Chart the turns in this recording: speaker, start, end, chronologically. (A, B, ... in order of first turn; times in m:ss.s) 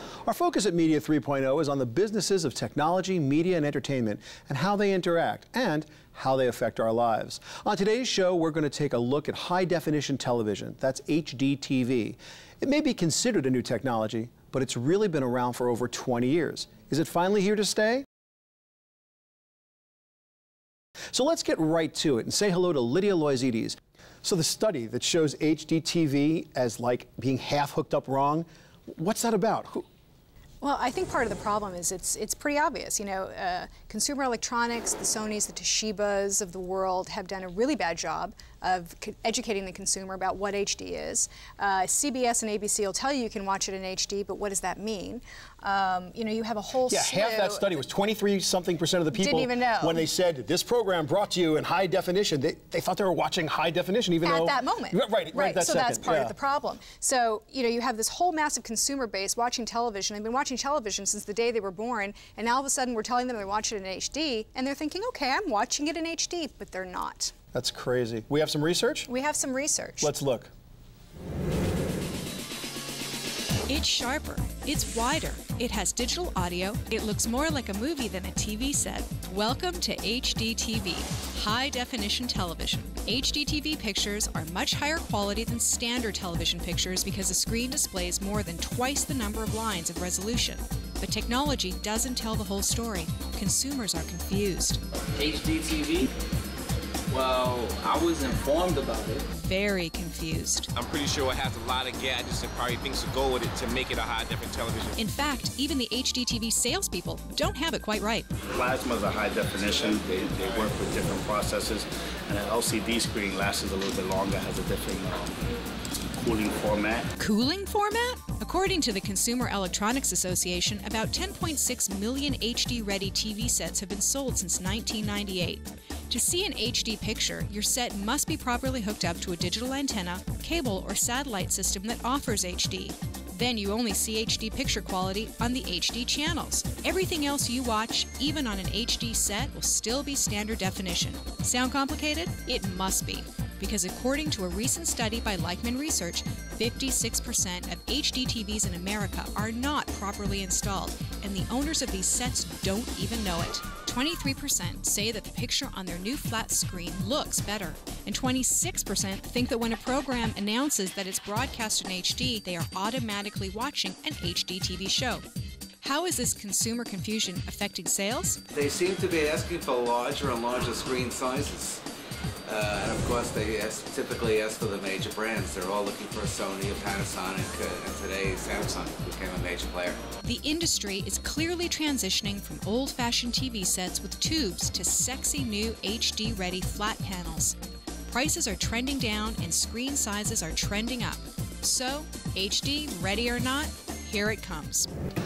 0:00.2-0:18.0 A
0:21.1-0:29.8 A
0:30.6-0:47.7 B
0:46.9-0:56.3 A
0:49.2-0:49.9 B
0:55.4-1:04.0 B
0:55.4-0:56.1 C
1:03.6-1:07.3 C
1:06.1-1:06.8 B
1:07.5-1:09.1 A
1:09.1-1:10.1 C
1:10.0-1:10.5 A
1:13.7-1:34.8 C
1:35.2-1:36.1 D
1:37.1-1:39.2 D
1:39.3-1:40.7 C
1:40.7-1:45.0 E
1:45.0-1:48.3 C
1:48.5-1:55.3 F
1:56.2-1:57.1 F
1:57.2-2:45.2 C
2:45.8-2:48.4 C
2:48.5-2:51.8 G
2:52.4-3:00.0 G
3:00.2-3:07.6 C
3:08.1-3:14.9 C